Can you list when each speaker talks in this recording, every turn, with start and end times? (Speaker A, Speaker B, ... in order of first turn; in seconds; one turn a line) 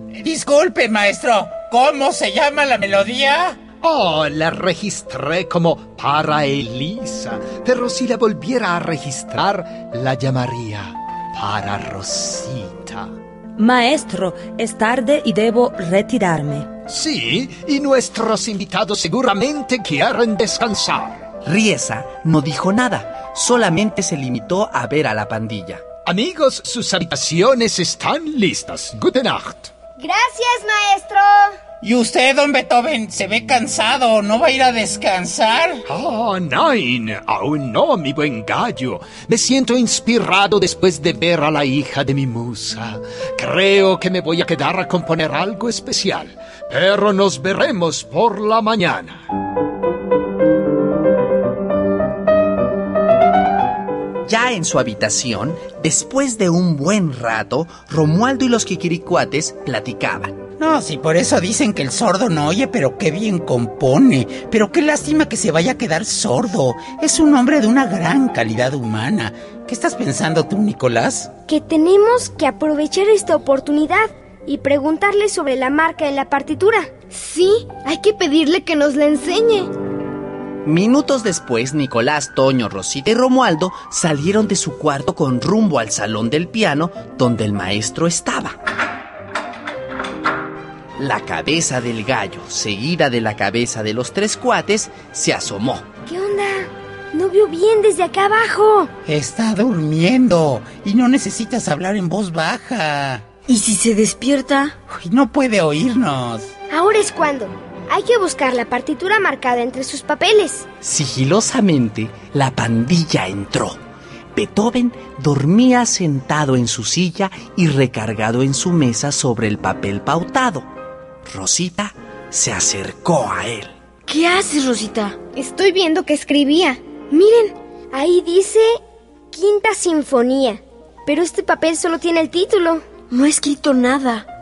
Speaker A: 0.1-3.6
Speaker B: 3.8-13.2
Speaker C: 13.6-16.7
Speaker B: 16.9-21.2
Speaker D: 21.4-25.8
Speaker B: 26.1-29.7
Speaker E: 30.0-31.6
Speaker A: 31.8-35.8
Speaker B: 35.9-49.3
Speaker D: 54.3-60.4
Speaker A: 60.6-71.3
Speaker E: 71.5-76.9
Speaker F: 77.1-79.7
Speaker D: 80.6-88.6
Speaker D: 91.0-95.9
Speaker E: 96.1-98.9
Speaker A: 99.1-103.3
Speaker G: 103.5-104.8
Speaker A: 104.9-106.5
Speaker E: 106.7-110.7
Speaker D: 110.8-113.8
Speaker D: 114.3-120.7
Speaker D: 121.2-123.7
Speaker G: 124.1-125.2
Speaker F: 125.3-127.5
Speaker E: 127.9-128.8
Speaker E: 129.3-132.9
Speaker G: 133.1-134.3